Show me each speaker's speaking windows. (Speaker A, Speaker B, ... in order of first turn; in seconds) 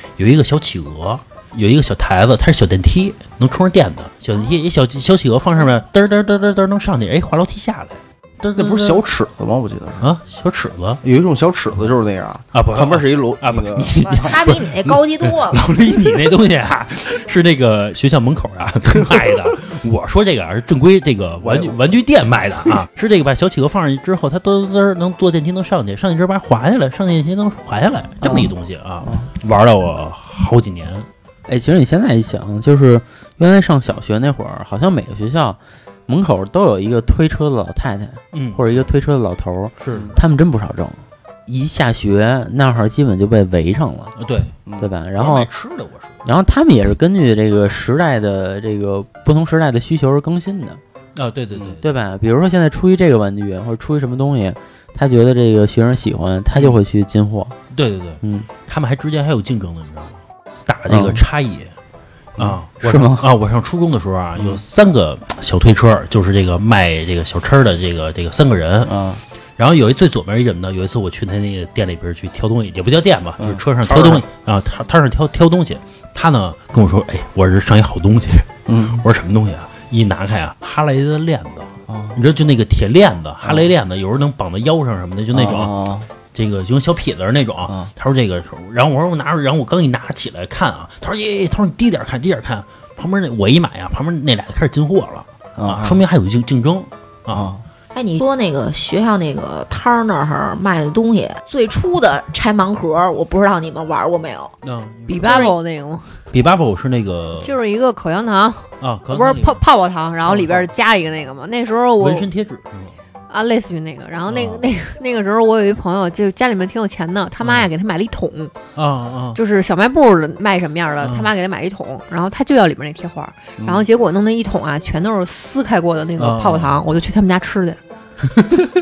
Speaker A: 0.2-9.0, 10.0-11.0, 12.5-31.1, 38.3-38.6, 39.8-40.1, 44.2-44.5, 45.2-46.2, 51.2-51.9, 57.7-61.7, 62.4-68.9, 69.6-85.8, 86.3-97.5, 104.6-105.6, 106.3-107.6, 108.8-109.6, 110.2-110.7, 112.0-113.0, 117.4-117.7, 118.8-119.4, 121.0-121.3, 126.2-126.8, 128.3-128.7
Speaker B: 8.6-10.1, 11.0-14.3, 21.4-21.8, 28.2-29.3, 68.9-69.2, 73.4-74.2, 78.7-79.0, 81.9-82.2, 83.4-83.7, 85.3-86.1, 95.6-96.0, 97.3-97.6, 114.3-114.6, 123.6-123.9
Speaker C: 14.0-15.6, 97.9-104.5, 105.3-105.5
Speaker D: 31.5-44.1, 44.8-45.5, 46.2-50.8, 51.8-57.5, 58.2-58.5, 60.9-61.2, 62.8-63.3
Speaker E: 105.1-106.2, 107.4-112.3, 113.3-118.5, 119.3-127.8